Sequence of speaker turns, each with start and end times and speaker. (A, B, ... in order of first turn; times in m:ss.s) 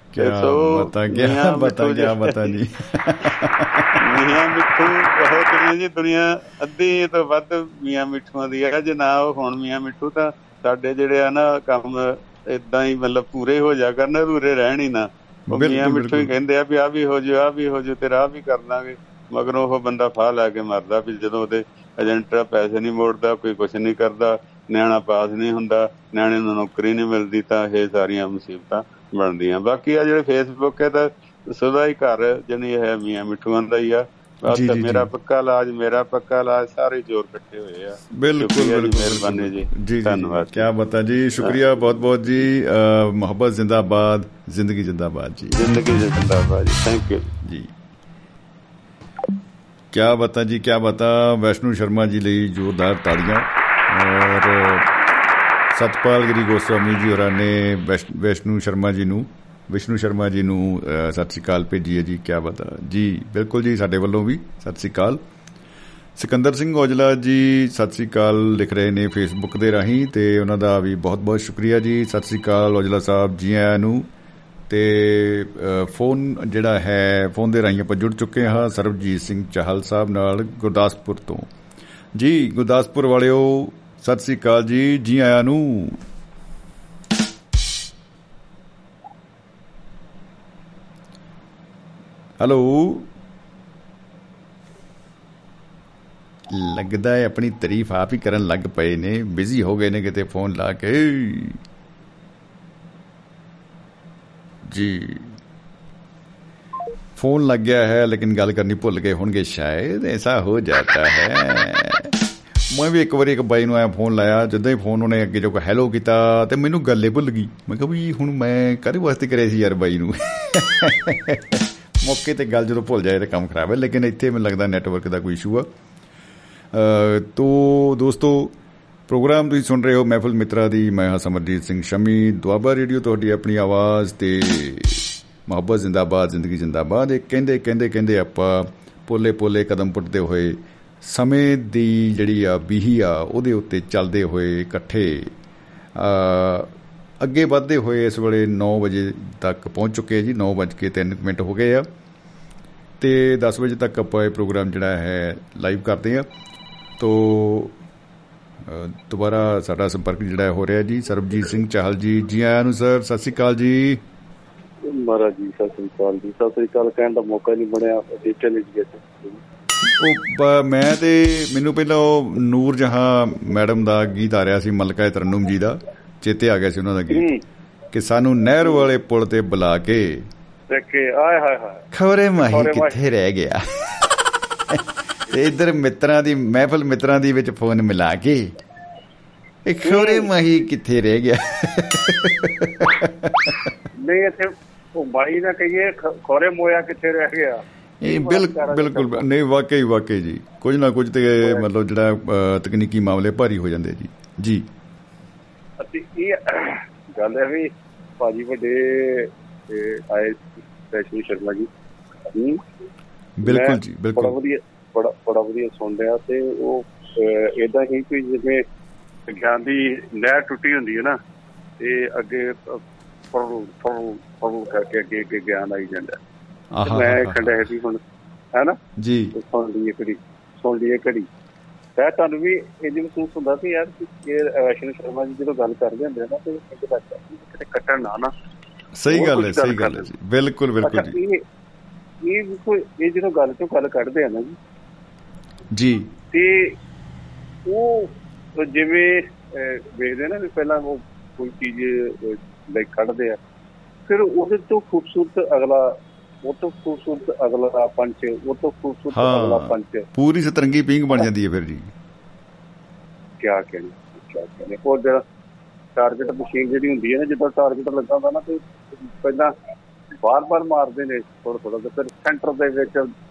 0:00.1-0:04.4 A
0:00.2-0:02.5 B
0:04.0-0:40.7 B
0:15.5-0:16.3 A
0:34.5-0:35.1 A
0:38.1-0:45.6 A
0:45.5-0:47.3 B
0:47.4-0:47.7 A
0:49.9-0:54.9 A
0:55.7-1:05.2 A
1:06.2-1:14.1 A
1:14.7-1:21.5 A
1:22.1-1:26.0 A
1:32.4-1:33.1 A
1:36.5-1:41.6 A
1:44.7-1:45.4 A
1:47.2-1:52.1 A
1:52.7-2:05.7 A
2:06.7-2:08.5 A
2:09.1-2:25.3 A
2:26.0-2:31.9 A
2:33.0-2:36.3 A
2:37.0-2:37.8 A
2:38.6-2:44.0 A
2:44.9-2:49.4 C
2:50.0-2:57.3 A
2:57.1-2:57.4 C
2:57.9-3:00.3 A
3:00.7-3:01.8 C
3:01.9-3:04.1 A
3:02.5-3:03.0 C
3:04.7-3:08.5 A
3:09.7-3:13.6 A
3:09.8-3:10.3 C
3:14.0-3:19.2 C
3:18.0-3:24.7 A
3:21.4-3:21.7 C
3:25.8-3:31.7 C
3:32.3-3:32.6 C
3:33.4-3:34.4 A
3:33.4-3:38.6 C
3:39.3-3:41.2 C
3:41.8-3:42.8 C
3:43.3-3:46.2 C
3:46.7-3:47.6 A
3:46.8-3:48.0 C
3:49.0-3:49.3 A
3:49.3-3:51.3 C
3:52.0-3:58.3 C
3:59.0-4:01.2 A
3:59.1-4:00.0 C
4:00.8-4:01.4 C
4:02.2-4:04.6 C
4:05.7-4:06.1 A
4:06.3-4:06.7 C
4:07.7-4:13.4 C
4:14.1-4:20.0 C
4:19.1-4:21.9 A
4:23.4-4:25.2 C
4:26.0-4:29.5 C
4:30.2-4:33.1 C